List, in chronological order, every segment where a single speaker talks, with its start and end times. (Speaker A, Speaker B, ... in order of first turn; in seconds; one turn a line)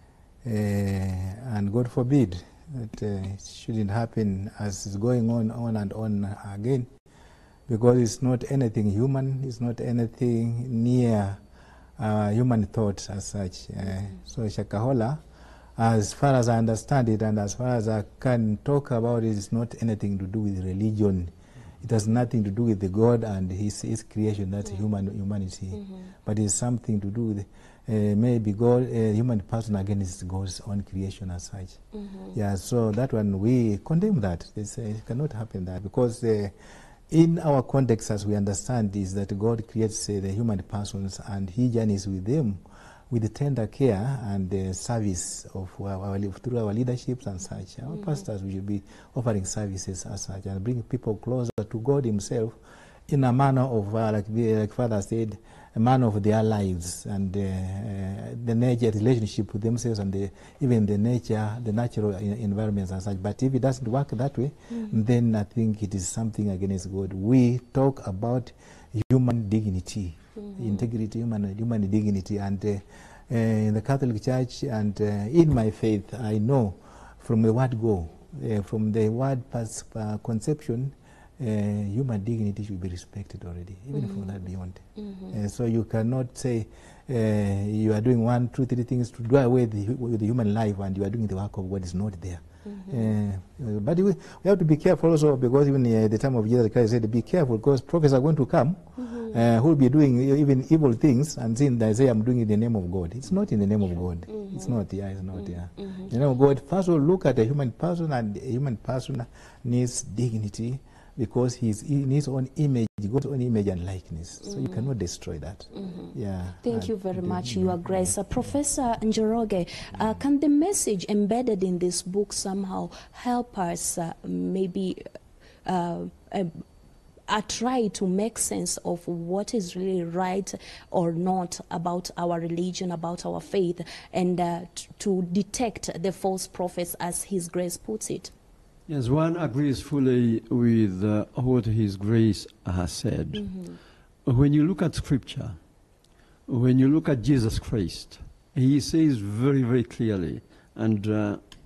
Speaker A: 0.4-6.9
Speaker A: 7.7-11.4
Speaker A: 12.0-15.2
Speaker A: 15.8-31.8
Speaker B: 31.9-32.4
Speaker A: 32.3-36.5
Speaker A: 37.1-52.6
Speaker A: 53.1-118.1
Speaker B: 64.7-65.0
Speaker B: 70.4-70.8
Speaker B: 84.0-84.3
Speaker B: 85.0-85.3
Speaker B: 92.7-93.1
Speaker B: 99.0-99.4
Speaker B: 104.3-104.7
Speaker B: 105.5-106.1
Speaker B: 114.5-114.8
Speaker B: 115.7-116.1
Speaker B: 116.6-125.0
Speaker B: 125.7-126.5
Speaker B: 127.3-138.3
Speaker C: 138.9-143.5
Speaker B: 143.3-143.8
Speaker C: 144.3-145.6
Speaker C: 146.5-151.4